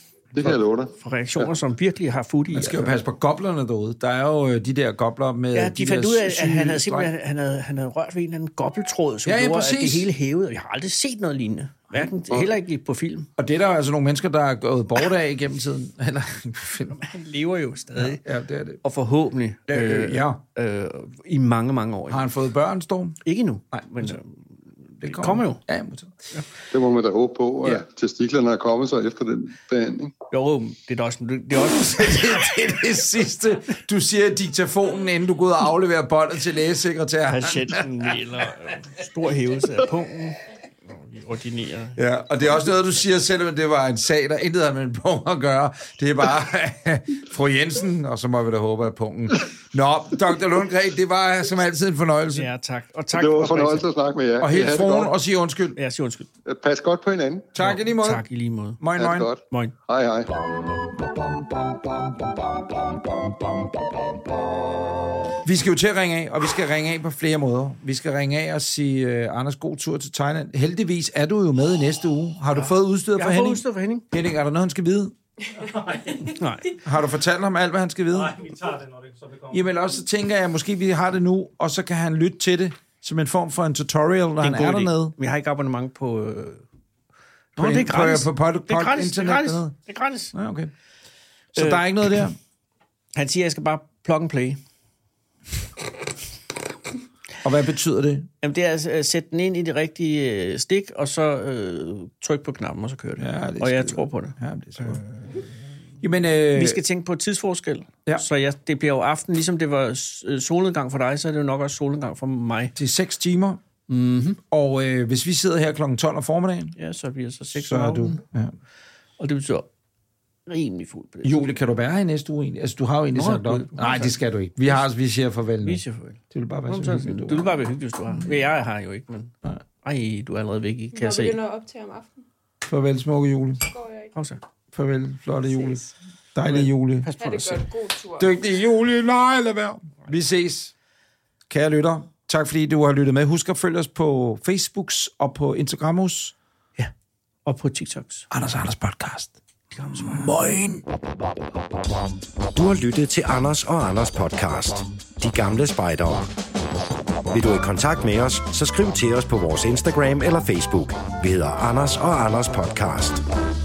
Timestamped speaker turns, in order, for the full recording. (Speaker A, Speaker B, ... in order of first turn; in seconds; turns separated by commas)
Speaker A: 0.3-1.5, Speaker B: 0.9-3.0, Speaker C: 2.5-7.1, Speaker B: 5.5-13.3, Speaker C: 9.2-10.1, Speaker C: 13.4-17.0, Speaker B: 16.9-18.2, Speaker C: 17.9-18.8, Speaker B: 18.8-22.3, Speaker C: 19.7-20.4, Speaker C: 22.1-23.2, Speaker B: 23.2-24.4, Speaker C: 23.7-24.2, Speaker C: 25.0-26.1, Speaker B: 25.0-25.6, Speaker A: 26.7-30.1, Speaker B: 30.3-32.4, Speaker C: 31.6-37.8, Speaker B: 37.2-42.0, Speaker C: 42.0-52.5, Speaker B: 52.3-53.9, Speaker A: 53.1-55.1, Speaker C: 54.4-55.8, Speaker B: 55.7-56.3, Speaker A: 56.4-57.5, Speaker C: 57.5-58.2, Speaker B: 57.6-58.8, Speaker C: 58.8-59.3, Speaker A: 59.0-60.5, Speaker B: 59.5-59.7, Speaker A: 63.3-63.7, Speaker C: 65.4-75.1, Speaker B: 72.5-74.0, Speaker D: 75.6-76.3, Speaker B: 76.3-76.7, Speaker C: 76.8-78.4, Speaker D: 78.1-79.7, Speaker C: 79.5-85.1, Speaker B: 84.4-86.6, Speaker B: 87.5-90.3, Speaker C: 87.6-89.7, Speaker C: 90.3-90.7, Speaker C: 91.5-92.3, Speaker B: 91.5-92.2, Speaker B: 93.1-94.6, Speaker C: 97.4-98.3, Speaker B: 98.4-105.0, Speaker C: 103.2-105.0, Speaker C: 106.0-106.8, Speaker B: 106.5-112.7, Speaker C: 112.7-113.6, Speaker B: 113.9-114.4, Speaker C: 114.5-116.8, Speaker B: 116.8-118.2, Speaker C: 117.5-118.5, Speaker B: 119.2-119.7, Speaker B: 120.5-121.4, Speaker C: 121.2-127.6, Speaker B: 123.1-124.1, Speaker B: 125.6-131.4, Speaker E: 130.9-132.2, Speaker C: 132.7-133.6, Speaker E: 133.7-134.1, Speaker B: 134.1-134.4, Speaker C: 134.7-137.6, Speaker E: 135.6-135.9, Speaker B: 136.4-137.6, Speaker E: 137.2-138.3, Speaker C: 138.2-140.7, Speaker C: 141.5-146.3, Speaker B: 147.4-148.3, Speaker C: 148.3-149.3, Speaker B: 149.7-150.4, Speaker C: 149.9-150.8, Speaker F: 152.5-156.3, Speaker F: 157.3-163.2